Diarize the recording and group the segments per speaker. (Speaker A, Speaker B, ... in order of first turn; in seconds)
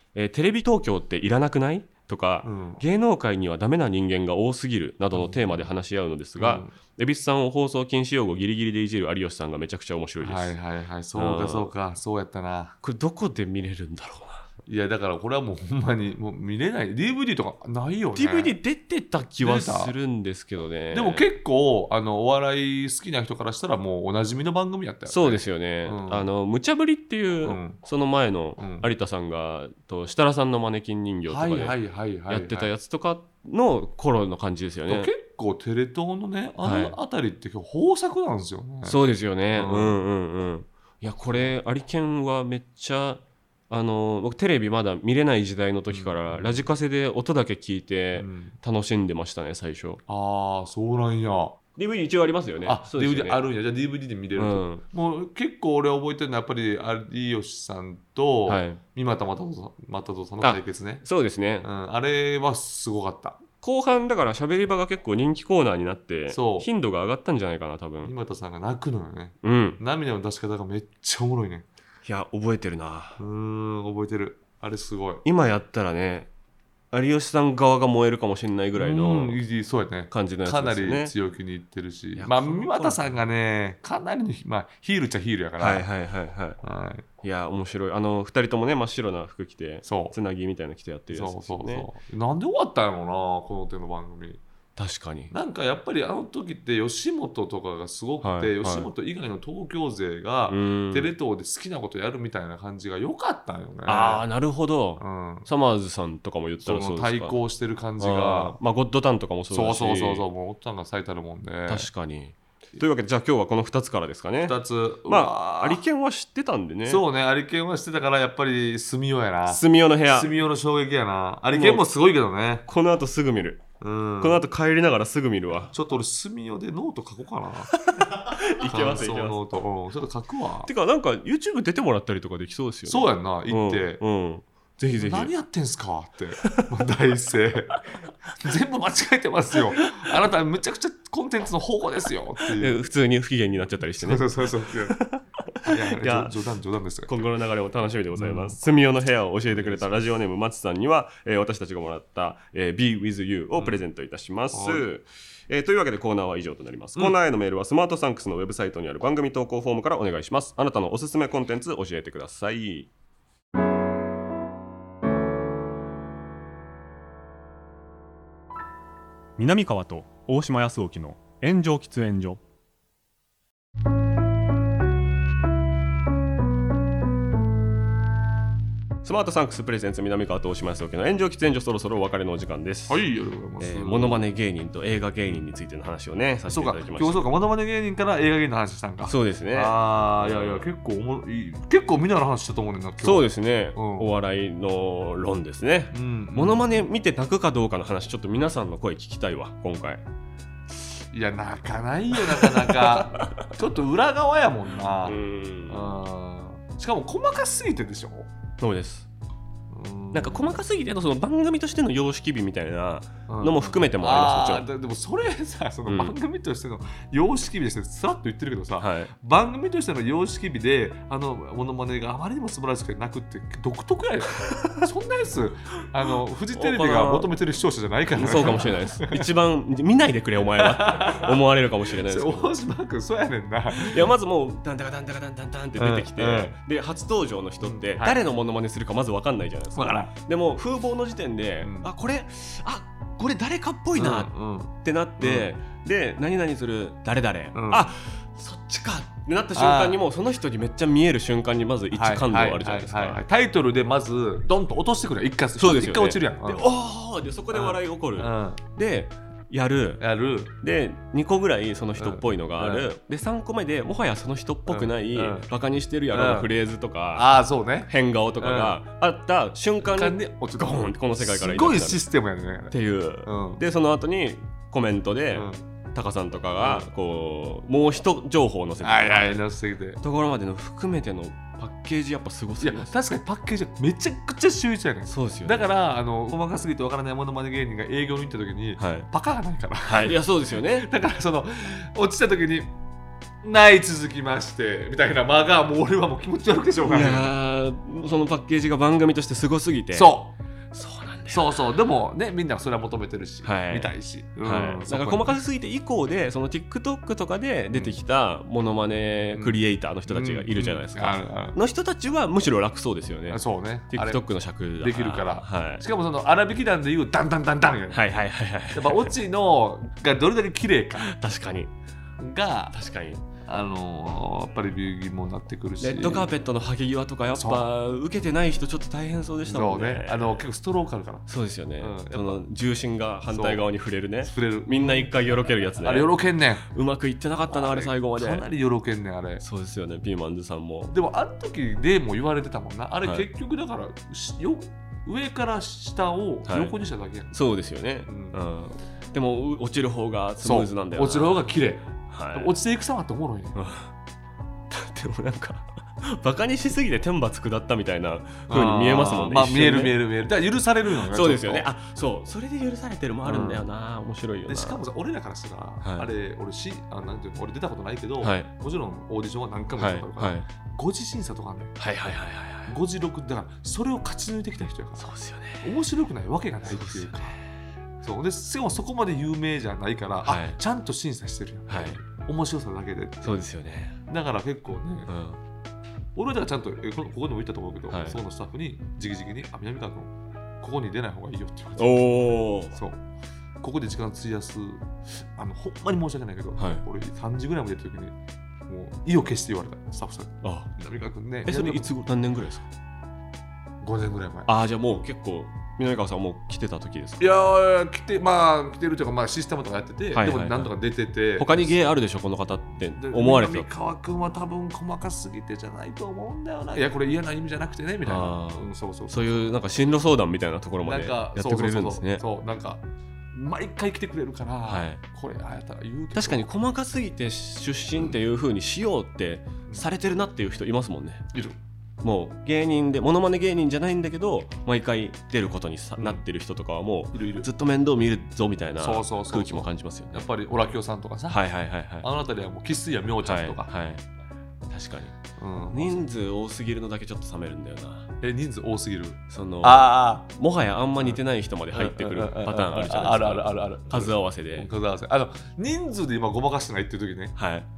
Speaker A: 0.1-10.6, 11.1-11.7, 12.8-14.5, 18.1-21.3, 25.1-31.8, 32.3-35.1, 36.6-37.0, 38.8-50.0, 51.8-53.4, 54.4-54.8, 58.5-58.8, 60.4-61.7, 63.6-68.1, 69.4-69.8, 72.0-73.2, 75.2-76.3, 76.9-79.4, 80.1-81.1, 82.2-83.2, 85.6-86.6, 87.2-91.9, 94.8-95.3, 98.2-98.9, 100.5-101.1, 103.8-107.4, 108.0-110.3, 111.7-117.0, 119.5-120.4, 121.5-121.9, 122.7-123.6, 124.2-125.7, 127.7-129.4, 130.7-135.3, 136.4-136.7, 139.5-140.1, 142.5-146.3, 147.1-162.9, 179.0-183.0, 183.6-187.3, 189.0-190.7, 193.0-200.0, 202.1-203.4, 205.0-205.9, 208.6-209.1, 210.1-214.7, 215.9-216.1, 218.8-219.1, 226.5-227.3, 228.1-232.5, 233.7-253.2, 255.5-260.0, 260.6-267.3, 267.9-272.1, 272.7-279.4, 280.0-282.9, 285.1-285.6, 288.8-289.1, 289.8-290.9, 296.8-300.1, 300.7-301.6, 303.4-315.8, 317.9-319.1, 321.0-321.7, 322.7-323.2, 325.8-330.3, 331.3-336.1, 336.6-338.4, 339.4-340.9, 346.4-346.7, 347.3-351.5, 352.0-352.5, 353.5-353.9, 354.7-360.0, 361.1-364.8, 365.8-366.1, 368.2-368.5, 369.8-370.5, 371.8-372.8, 375.0-375.7, 376.6-377.4, 380.2-380.6, 381.7-382.0, 383.2-384.0, 385.1-385.4, 387.9-388.2, 391.8-392.8, 396.6-396.8, 400.4-400.7, 401.4-402.6, 404.4-407.3, 410.1-410.7, 411.4-413.7, 418.0-422.2, 424.6-425.0, 426.1-431.2, 432.0-440.2, 441.3-442.1, 443.2-444.0, 444.7-445.2, 445.7-448.1, 449.3-454.7, 457.4-457.7
Speaker B: 2.4-2.8, 5.1-5.7, 6.3-6.7, 10.2-12.8, 14.7-18.6, 19.4-19.9, 20.9-26.3, 27.4-27.8, 28.6-28.9, 31.3-32.7, 34.9-39.0, 39.5-40.0, 45.9-46.6, 48.1-48.5, 50.1-51.6, 52.6-61.0, 61.6-63.4, 66.3-66.7, 68.0-71.7, 73.2-75.2, 78.8-85.9, 86.6-87.0, 89.8-90.2, 91.1-94.4, 95.3-104.2, 105.0-105.5, 106.6-108.6, 109.5-111.9, 114.4-115.8, 116.8-122.7, 123.8-124.4, 125.7-127.7, 128.6-130.7, 132.9-134.0, 134.9-137.8, 138.4-142.8, 144.0-145.0, 145.7-147.1, 148.1-148.6, 149.5-149.9, 153.6-153.8, 154.5-154.8, 182.9-184.2, 186.5-194.1, 195.9-196.7, 201.1-208.3, 209.7-210.6, 213.3-229.2, 230.6-234.1, 235.8-236.6, 237.6-238.2, 239.7-240.1, 241.6-241.9, 243.9-245.5, 247.5-247.9, 249.5-250.0, 251.9-256.6, 257.5-258.6, 260.0-260.5, 261.9-262.9, 264.7-265.5, 266.1-266.5, 267.1-268.8, 269.9-272.7, 273.2-273.6, 275.3-275.6, 276.6-276.9, 278.8-280.0, 282.6-292.7, 293.4-297.3, 299.9-300.4, 301.3-305.4, 307.7-308.0, 309.3-311.6, 313.3-314.2, 314.8-318.0, 318.7-321.1, 322.2-322.8, 323.4-326.3, 327.3-327.6, 329.4-331.3, 331.8-332.4, 333.3-333.6, 334.2-335.1, 335.8-336.7, 337.5-339.4, 340.9-347.3, 348.1-348.4, 350.4-353.6, 358.5-361.7, 363.2-363.6, 364.4-371.8, 372.6-375.1, 375.6-377.4, 378.0-383.4, 384.1-385.1, 386.1-393.0, 393.6-398.1, 398.7-401.9, 403.8-404.5, 407.2-411.9, 412.7-419.5, 420.8-426.5, 436.0-436.2, 437.1-437.5, 438.8-441.4, 442.0-443.7, 445.4-446.1, 448.2-450.3, 451.7-457.3
Speaker C: 169.4-172.4